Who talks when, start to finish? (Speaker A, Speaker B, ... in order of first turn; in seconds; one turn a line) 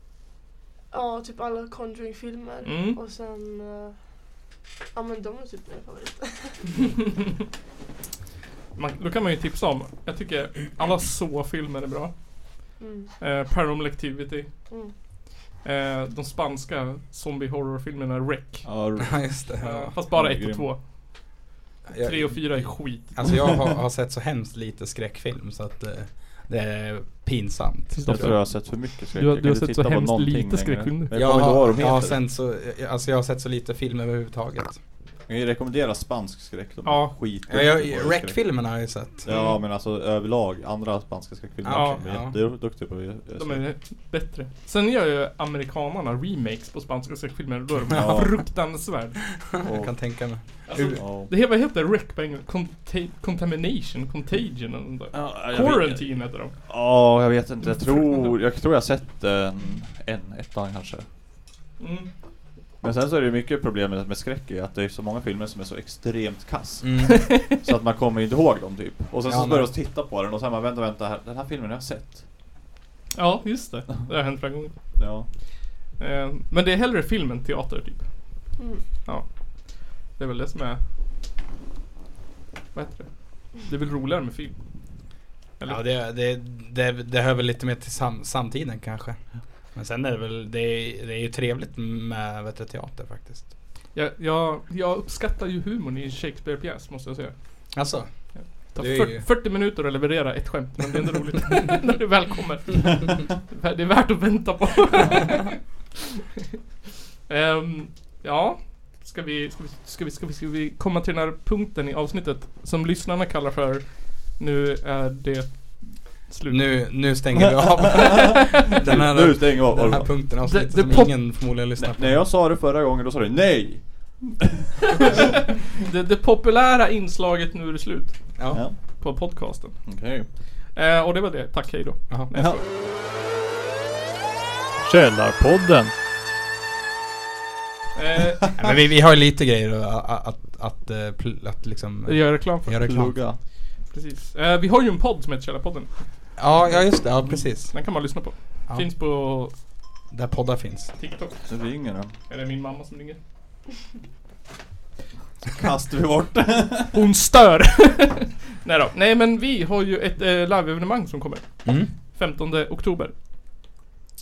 Speaker A: 0.9-4.0
Speaker B: 2.6-3.0
Speaker A: 4.9-7.1
Speaker B: 8.8-12.1
Speaker A: 12.8-13.1
Speaker B: 13.2-14.5
Speaker A: 14.7-14.9
Speaker B: 15.6-18.7
Speaker C: 18.6-19.2
Speaker D: 19.0-19.9
Speaker B: 19.6-20.8
Speaker C: 20.1-20.7
Speaker D: 21.9-28.3
Speaker B: 22.0-23.2
Speaker B: 27.9-31.1
Speaker C: 28.1-32.2
Speaker D: 31.1-34.8
Speaker C: 35.3-43.7
Speaker B: 36.9-37.1
Speaker D: 37.5-39.3
Speaker B: 39.3-39.6
Speaker D: 41.6-42.4
Speaker B: 41.7-42.0
Speaker B: 43.4-49.2
Speaker C: 47.9-48.4
Speaker D: 49.5-51.0
Speaker C: 49.6-50.0
Speaker B: 50.7-56.5
Speaker C: 51.0-51.3
Speaker C: 55.1-61.1
Speaker B: 57.9-58.3
Speaker B: 61.8-62.1
Speaker C: 62.8-72.3
Speaker D: 66.8-67.4
Speaker B: 67.1-67.5
Speaker D: 69.3-69.7
Speaker B: 73.1-74.7
Speaker C: 75.0-75.3
Speaker B: 76.0-78.5
Speaker A: 78.6-78.8
Speaker B: 79.0-80.8
Speaker B: 82.7-84.6
Speaker D: 85.7-93.5
Speaker B: 93.9-97.3
Speaker D: 97.7-99.3
Speaker B: 98.3-105.6
Speaker B: 107.3-116.8
Speaker D: 116.5-122.3
Speaker C: 117.9-120.1
Speaker B: 119.7-121.2
Speaker C: 121.8-125.2
Speaker B: 125.0-129.9
Speaker D: 128.4-128.6
Speaker C: 129.9-130.3
Speaker B: 130.7-132.6
Speaker D: 132.1-132.4
Speaker C: 132.3-132.6
Speaker C: 134.8-135.9
Speaker B: 137.9-138.5
Speaker D: 138.6-143.2
Speaker B: 142.1-142.8
Speaker C: 142.8-143.4
Speaker B: 143.9-145.9
Speaker D: 146.4-147.8
Speaker B: 147.7-149.5
Speaker D: 150.1-150.9
Speaker B: 151.0-151.5
Speaker C: 151.5-152.1
Speaker B: 152.3-153.2
Speaker C: 155.5-156.9
Speaker B: 156.9-163.1
Speaker D: 161.6-161.9